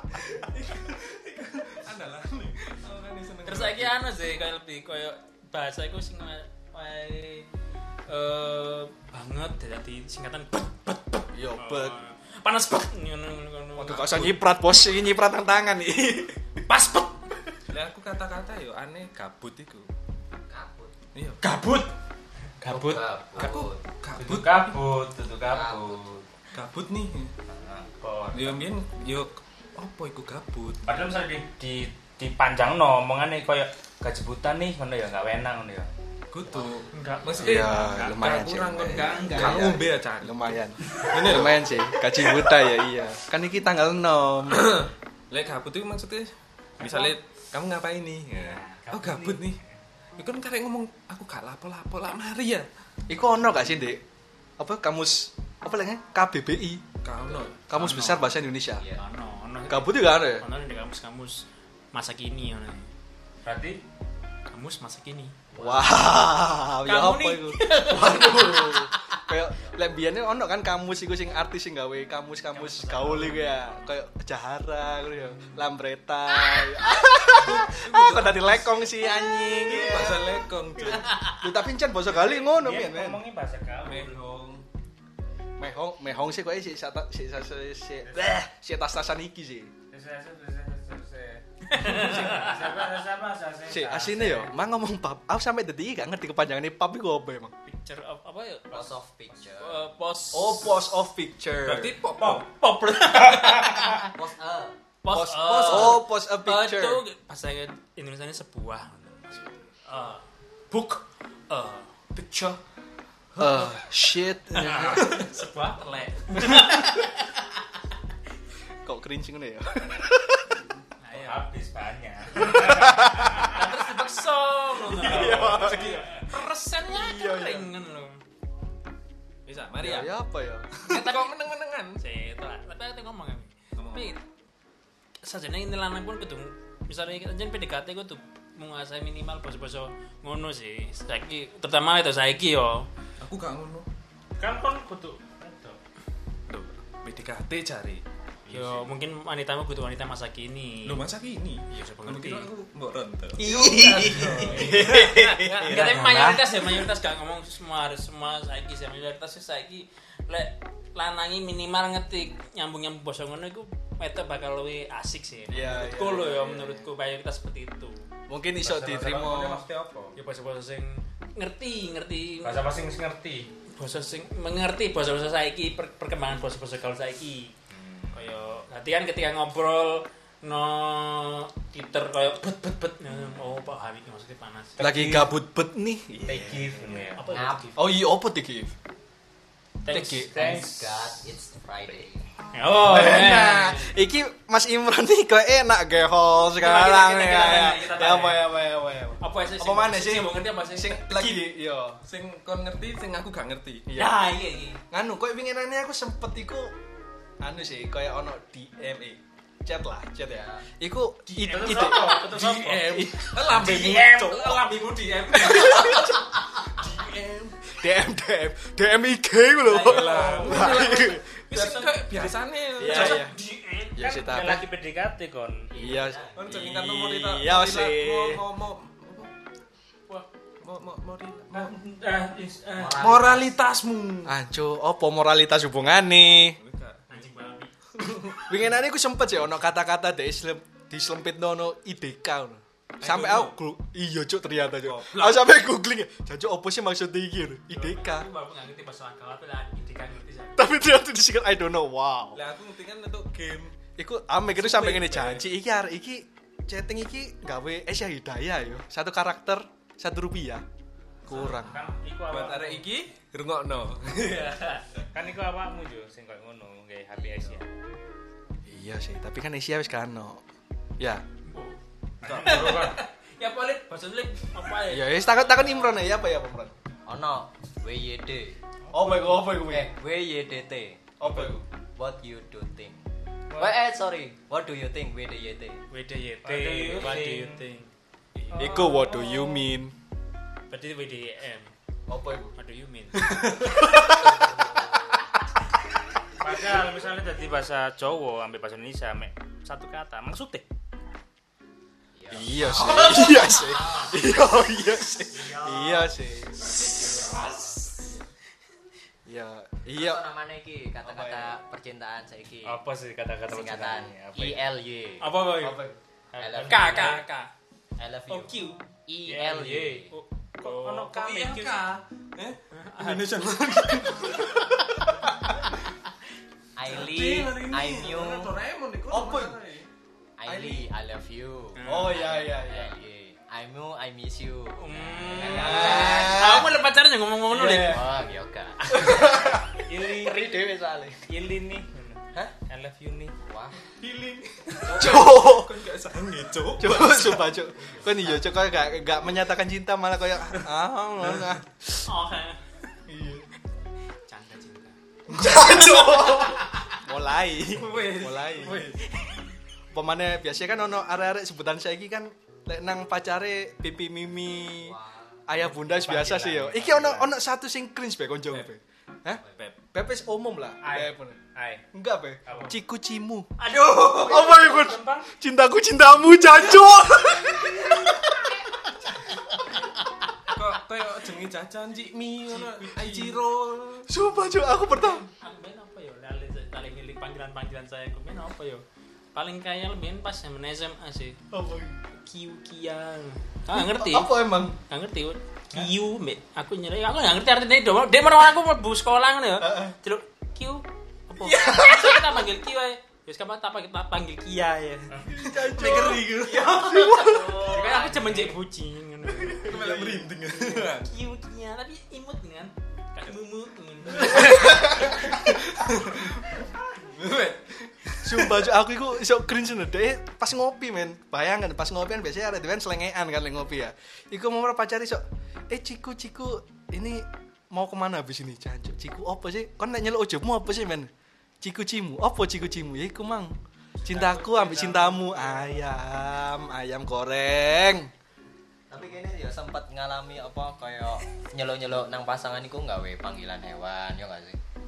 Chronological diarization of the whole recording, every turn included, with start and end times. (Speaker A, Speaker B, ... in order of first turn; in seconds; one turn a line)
Speaker A: 0.1-4.0
Speaker B: 3.5-7.5
Speaker B: 8.1-14.3
Speaker C: 11.3-12.0
Speaker C: 13.8-16.6
Speaker B: 16.7-17.1
Speaker A: 17.7-19.9
Speaker D: 20.5-20.9
Speaker A: 21.1-21.4
Speaker B: 21.4-21.9
Speaker B: 22.6-23.0
Speaker D: 22.7-23.8
Speaker A: 23.4-24.8
Speaker E: 24.2-26.2
Speaker D: 25.5-26.1
Speaker A: 26.5-27.3
Speaker D: 27.5-27.9
Speaker E: 28.0-28.6
Speaker A: 28.3-30.8
Speaker E: 30.9-35.9
Speaker A: 36.3-42.7
Speaker B: 36.9-37.6
Speaker C: 37.4-44.8
Speaker B: 38.9-39.8
Speaker A: 44.5-49.6
Speaker E: 48.4-49.5
Speaker A: 50.2-52.7
Speaker C: 53.1-54.0
Speaker C: 54.6-56.8
Speaker A: 57.0-57.6
Speaker C: 57.7-58.8
Speaker B: 57.7-58.3
Speaker D: 58.8-59.0
Speaker B: 59.0-62.9
Speaker C: 59.7-60.4
Speaker E: 63.5-63.8
Speaker B: 64.5-65.3
Speaker D: 65.5-66.0
Speaker C: 65.6-83.2
Speaker B: 66.9-69.2
Speaker B: 72.5-73.6
Speaker A: 77.4-78.7
Speaker A: 79.6-81.3
Speaker B: 80.9-81.4
Speaker E: 82.4-84.2
Speaker A: 83.8-84.7
Speaker C: 85.6-89.7
Speaker E: 88.0-88.4
Speaker E: 89.9-94.5
Speaker B: 91.7-92.6
Speaker C: 91.9-92.4
Speaker C: 93.7-97.5
Speaker B: 97.7-98.9
Speaker D: 98.7-99.9
Speaker B: 99.6-100.9
Speaker C: 100.3-102.0
Speaker A: 101.6-102.5
Speaker B: 102.2-104.1
Speaker D: 104.0-104.8
Speaker B: 105.0-112.6
Speaker C: 105.1-107.0
Speaker D: 105.7-106.0
Speaker B: 113.4-113.7
Speaker C: 113.4-115.1
Speaker B: 114.6-117.6
Speaker E: 114.6-115.1
Speaker C: 118.8-120.6
Speaker B: 121.0-121.5
Speaker E: 121.1-123.4
Speaker C: 122.4-123.5
Speaker B: 122.4-128.2
Speaker C: 124.9-126.1
Speaker E: 125.2-125.9
Speaker C: 126.9-127.7
Speaker A: 129.5-130.1
Speaker C: 129.8-130.8
Speaker A: 130.8-132.0
Speaker B: 130.8-131.3
Speaker B: 132.0-134.2
Speaker A: 133.8-134.2
Speaker B: 135.2-142.9
Speaker A: 143.2-143.9
Speaker E: 144.4-145.8
Speaker A: 146.5-148.0
Speaker E: 148.5-148.9
Speaker B: 148.5-151.0
Speaker A: 150.8-153.4
Speaker B: 151.7-152.5
Speaker C: 153.4-156.8
Speaker B: 153.4-168.1
Speaker A: 154.0-155.1
Speaker C: 165.5-166.9
Speaker C: 168.3-169.6
Speaker E: 168.6-170.1
Speaker B: 170.2-172.6
Speaker E: 172.4-173.5
Speaker B: 173.7-177.5
Speaker E: 177.7-178.1
Speaker B: 178.1-185.3
Speaker C: 184.8-186.6
Speaker E: 186.2-187.2
Speaker D: 186.3-187.8
Speaker B: 187.2-187.8
Speaker C: 187.8-188.7
Speaker B: 189.8-190.7
Speaker C: 189.9-190.6
Speaker D: 190.3-192.3
Speaker B: 192.5-193.9
Speaker C: 192.8-202.0
Speaker B: 196.6-198.4
Speaker B: 199.2-201.4
Speaker A: 202.1-203.9
Speaker C: 203.9-204.2
Speaker B: 203.9-204.8
Speaker C: 204.9-206.7
Speaker C: 207.4-213.1
Speaker D: 210.2-210.6
Speaker B: 211.3-216.1
Speaker E: 211.5-212.8
Speaker A: 212.2-214.8
Speaker E: 213.5-214.0
Speaker A: 215.3-217.7
Speaker C: 215.7-216.2
Speaker C: 217.7-221.4
Speaker B: 219.7-223.9
Speaker A: 219.8-223.3
Speaker C: 222.8-223.3
Speaker E: 223.9-225.7
Speaker C: 223.9-224.7
Speaker D: 225.7-226.5
Speaker C: 225.8-228.4
Speaker A: 226.3-229.3
Speaker A: 230.6-231.8
Speaker B: 231.5-233.1
Speaker D: 232.8-233.6
Speaker A: 233.0-234.4
Speaker C: 234.3-236.6
Speaker A: 236.6-237.4
Speaker B: 237.1-237.7
Speaker A: 238.0-238.5
Speaker C: 238.4-248.3
Speaker A: 243.0-243.6
Speaker A: 244.8-245.5
Speaker B: 247.7-250.7
Speaker C: 250.6-252.4
Speaker A: 252.3-253.8
Speaker C: 253.9-260.6
Speaker A: 254.5-255.5
Speaker C: 261.3-261.8
Speaker E: 261.3-262.9
Speaker A: 261.4-261.7
Speaker A: 262.3-264.8
Speaker B: 264.2-264.8
Speaker E: 265.1-267.7
Speaker D: 267.1-267.8
Speaker C: 268.7-270.4
Speaker B: 271.4-271.8
Speaker E: 272.2-273.0
Speaker A: 272.2-273.0
Speaker B: 272.4-276.0
Speaker C: 274.9-276.8
Speaker D: 277.1-278.6
Speaker C: 278.9-279.9
Speaker D: 279.4-283.0
Speaker C: 281.2-281.6
Speaker D: 283.6-285.8
Speaker B: 285.9-287.9
Speaker E: 286.4-287.6
Speaker E: 288.5-289.4
Speaker A: 288.5-289.5
Speaker C: 288.6-289.9
Speaker B: 290.7-291.7
Speaker C: 292.1-292.5
Speaker B: 292.6-293.3
Speaker A: 293.2-293.9
Speaker C: 293.6-294.4
Speaker D: 294.3-295.2
Speaker E: 296.4-300.7
Speaker D: 302.1-304.2
Speaker C: 302.3-306.8
Speaker D: 305.3-306.1
Speaker D: 306.8-307.9
Speaker B: 306.9-308.1
Speaker C: 309.3-310.2
Speaker D: 309.9-312.8
Speaker C: 311.0-311.6
Speaker E: 312.6-314.6
Speaker D: 313.5-317.2
Speaker B: 315.2-315.8
Speaker E: 316.3-317.2
Speaker B: 316.7-317.5
Speaker D: 318.0-320.1
Speaker B: 318.3-321.2
Speaker E: 319.3-320.0
Speaker E: 320.6-322.0
Speaker A: 321.1-325.0
Speaker B: 322.7-323.4
Speaker B: 324.0-324.6
Speaker D: 326.8-328.6
Speaker A: 326.8-329.9
Speaker C: 329.1-329.5
Speaker D: 330.4-336.6
Speaker C: 330.5-330.9
Speaker B: 331.8-332.3
Speaker C: 331.8-333.0
Speaker B: 334.8-338.1
Speaker C: 335.4-336.7
Speaker C: 337.5-338.0
Speaker D: 337.7-339.4
Speaker C: 338.9-339.7
Speaker B: 338.9-339.5
Speaker E: 339.8-340.4
Speaker D: 339.9-341.2
Speaker E: 341.3-343.3
Speaker D: 343.5-343.8
Speaker A: 344.0-347.3
Speaker D: 344.8-345.3
Speaker C: 345.0-345.7
Speaker C: 346.8-352.1
Speaker D: 348.1-348.4
Speaker B: 352.1-352.6
Speaker C: 353.1-353.4
Speaker B: 354.3-356.9
Speaker C: 355.3-358.8
Speaker A: 357.7-359.1
Speaker B: 359.1-359.4
Speaker C: 359.9-365.0
Speaker D: 364.8-365.4
Speaker C: 365.5-371.4
Speaker E: 365.8-367.3
Speaker A: 369.5-369.8
Speaker E: 370.8-371.8
Speaker C: 371.9-373.5
Speaker E: 372.5-372.7
Speaker E: 373.6-375.3
Speaker B: 373.9-374.4
Speaker C: 374.2-378.5
Speaker B: 379.6-380.0
Speaker A: 380.5-384.1
Speaker B: 382.6-383.4
Speaker C: 384.1-385.2
Speaker B: 384.7-391.4
Speaker C: 391.5-392.0
Speaker B: 392.2-409.8
Speaker C: 393.7-394.8
Speaker C: 399.6-399.9
Speaker C: 401.4-402.4
Speaker C: 405.3-407.7
Speaker A: 405.6-406.7
Speaker D: 406.7-408.5
Speaker C: 409.4-410.3
Speaker A: 409.6-411.1
Speaker B: 410.7-415.2
Speaker A: 414.2-418.7
Speaker C: 414.2-415.2
Speaker C: 418.2-431.1
Speaker C: 431.6-433.5
Speaker C: 434.1-438.1
Speaker B: 434.1-435.6
Speaker D: 438.9-444.6